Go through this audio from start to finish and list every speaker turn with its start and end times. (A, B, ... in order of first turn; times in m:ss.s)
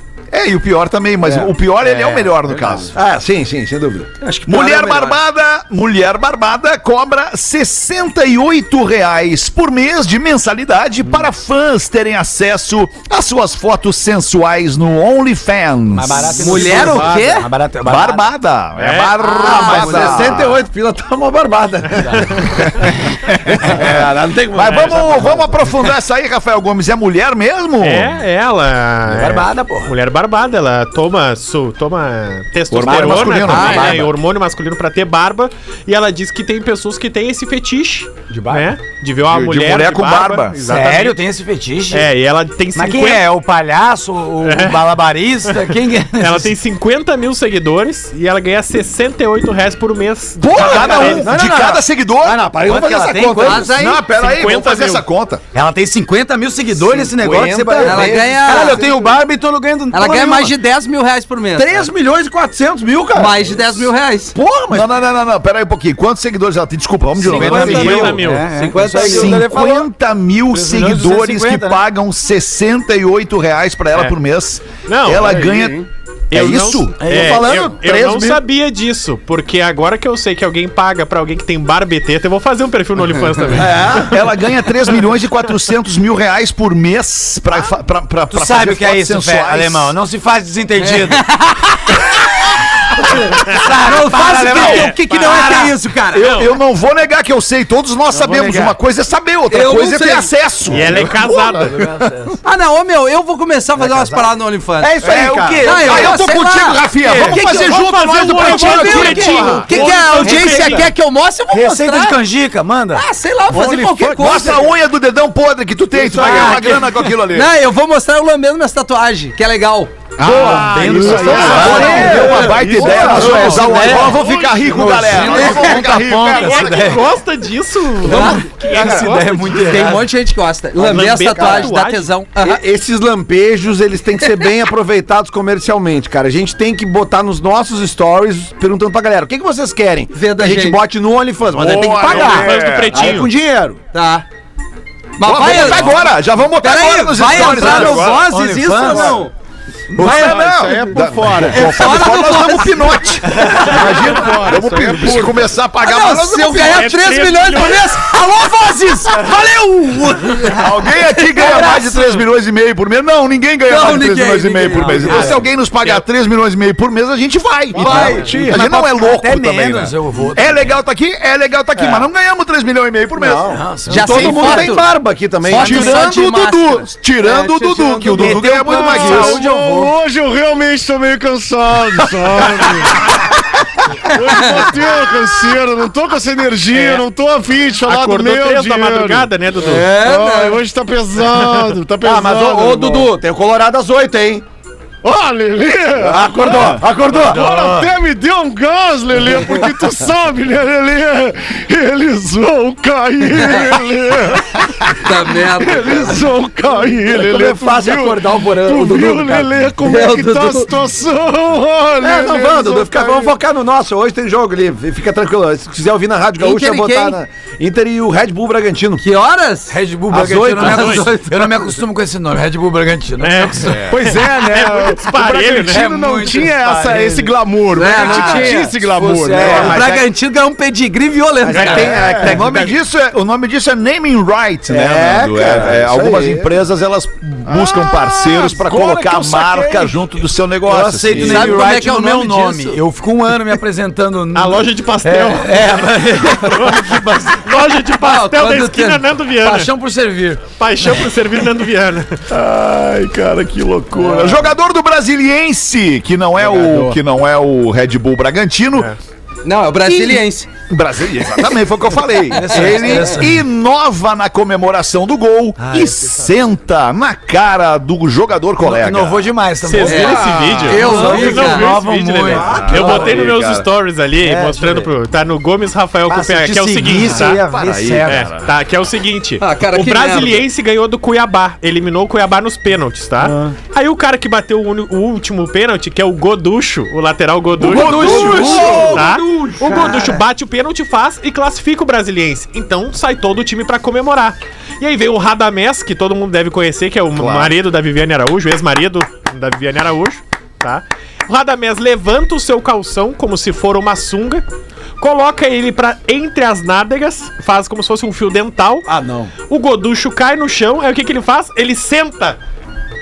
0:00.3-0:02.9 A
0:01.2-0:01.5 B
0:01.8-0:02.9 C
0:02.9-0:04.2 B
0:04.2-0:05.1 D
0:04.4-0:16.9 A
0:15.9-0:18.3 C
0:16.3-0:17.5 D
0:16.9-0:17.2 B
0:17.8-0:20.6 A
0:18.8-0:19.2 E
0:19.2-0:20.3 D
0:19.3-0:22.9 B
0:22.1-0:22.4 E
0:23.2-0:28.1 A
0:23.4-0:25.8 B
0:24.7-0:25.1 E
0:27.8-0:41.2 E
0:29.1-0:29.9 C
0:32.7-0:34.1 A
0:33.4-0:34.1 D
0:38.3-0:38.7 C
0:39.2-0:40.6 A
0:40.6-0:42.1 C
0:41.9-0:43.2 E
0:42.7-0:46.5 C
0:44.4-0:44.9 E
0:45.4-0:51.3 E
0:50.4-0:53.8 B
0:50.4-0:52.4 A
0:52.6-0:53.7 C
0:53.4-0:54.0 D
0:53.5-0:55.4 A
0:54.0-0:55.0 E
0:55.5-1:00.5 C
0:56.8-0:59.1 B
0:57.8-0:58.9 D
0:59.9-1:01.9 D
1:01.6-1:03.8 B
1:03.1-1:04.4 D
1:04.3-1:04.9 B
1:04.7-1:08.2 A
1:07.2-1:09.9 C
1:07.3-1:08.0 D
1:07.4-1:08.5 E
1:08.5-1:09.4 D
1:08.9-1:17.0 A
1:10.5-1:11.8 C
1:14.9-1:15.5 E
1:15.2-1:15.6 F
1:16.3-1:24.1 E
1:17.0-1:17.5 C
1:17.0-1:18.4 B
1:23.5-1:24.1 B
1:23.9-1:30.0 A
1:28.3-1:31.2 C
1:30.8-1:31.9 D
1:33.3-1:35.7 C
1:33.5-1:36.4 D
1:34.6-1:35.5 E
1:36.1-1:41.8 A
1:36.2-1:36.5 E
1:38.3-1:38.7 B
1:39.5-1:40.3 D
1:40.7-1:41.8 E
1:41.6-1:42.4 C
1:42.4-1:45.0 D
1:43.8-1:44.3 C
1:44.8-1:46.2 C
1:45.0-1:49.6 A
1:45.6-1:52.2 D
1:47.1-1:50.5 F
1:47.3-1:50.9 E
1:51.5-1:53.0 C
1:52.9-1:54.7 D
1:53.5-1:54.6 F
1:54.2-1:57.5 A
1:56.0-1:57.0 C
1:56.2-2:00.1 D
2:00.2-2:04.2 F
2:00.2-2:07.0 C
2:00.2-2:07.1 A
2:01.3-2:03.5 B
2:01.4-2:02.4 D
2:03.2-2:09.6 E
2:05.3-2:05.7 D
2:08.0-2:10.1 C
2:08.0-2:12.6 D
2:10.8-2:11.7 B
2:10.8-2:12.1 E
2:12.4-2:23.8 B
2:20.1-2:20.8 D
2:21.6-2:23.2 A
2:22.0-2:23.3 E
2:23.9-2:24.2 D
2:25.2-2:26.0 D
2:25.2-2:28.2 A
2:26.6-2:29.3 D
2:27.4-2:29.2 C
2:29.9-2:36.8 A
2:30.0-2:32.0 F
2:30.0-2:30.7 B
2:30.0-2:30.3 C
2:31.4-2:33.2 D
2:33.3-2:35.4 F
2:35.8-2:40.6 D
2:36.5-2:38.0 E
2:40.5-2:53.6 A
2:41.3-2:41.8 D
2:41.4-2:42.0 C
2:43.6-2:45.4 D
2:44.7-2:45.4 C
2:47.7-2:50.7 C
2:47.8-2:48.6 F
2:47.8-2:48.2 D
2:51.8-2:52.0 B
2:53.2-2:56.0 B
2:53.4-2:54.7 C
2:53.9-2:54.9 D
2:55.4-2:58.5 D
2:55.5-2:59.4 A
2:58.1-2:59.9 C
2:58.6-3:03.3 F
3:04.0-3:09.3 F
3:04.2-3:04.7 D
3:07.8-3:09.9 E
3:09.6-3:10.6 D
3:09.9-3:13.1 F
3:11.3-3:11.7 E
3:12.0-3:14.4 B
3:15.0-3:33.3 F
3:16.0-3:17.5 B
3:17.1-3:17.9 C
3:23.4-3:23.7 D
3:24.9-3:26.2 D
3:27.0-3:29.6 B
3:29.8-3:30.7 D
3:32.0-3:39.1 B
3:36.4-3:37.2 D
3:39.0-3:39.7 D
3:39.7-3:43.9 C
3:40.1-3:41.1 B
3:40.6-3:41.2 D
3:40.6-3:41.1 E
3:43.2-3:45.9 E
3:43.8-3:49.8 F
3:45.6-3:47.4 C
3:47.7-3:48.7 D
3:47.9-3:49.8 C
3:49.4-3:50.0 B
3:49.4-3:49.8 A
3:49.5-3:52.2 D
3:51.4-3:52.7 B
3:51.9-3:52.4 F
3:52.2-4:01.6 A
3:54.7-3:56.5 B
3:57.5-4:00.0 F
4:00.6-4:07.3 C
4:01.1-4:02.8 D
4:04.3-4:09.7 E
4:08.0-4:09.1 D
4:09.4-4:10.4 C
4:10.6-4:12.2 E
4:12.3-4:18.9 A
4:16.4-4:16.9 F
4:19.4-4:20.5 D
4:19.8-4:20.2 A
4:20.7-4:29.3 A
4:22.3-4:23.4 C
4:22.5-4:23.0 D
4:25.6-4:26.0 C
4:28.6-4:33.2 C
4:29.6-4:37.4 E
4:29.8-4:31.8 D
4:29.9-4:31.0 F
4:32.3-4:33.7 A
4:32.3-4:33.2 B
4:34.2-4:34.9 C
4:36.1-4:38.3 C
4:37.1-4:38.5 A
4:38.1-5:04.4 E
4:39.4-4:40.4 D
4:43.2-4:43.5 C
4:47.6-4:49.0 A
4:47.8-4:49.7 D
4:47.8-4:50.2 C
4:47.9-4:49.0 B
4:48.4-4:48.9 F
4:57.1-4:57.5 A
5:05.0-5:08.9 E
5:08.9-5:09.3 B
5:09.5-5:12.4 E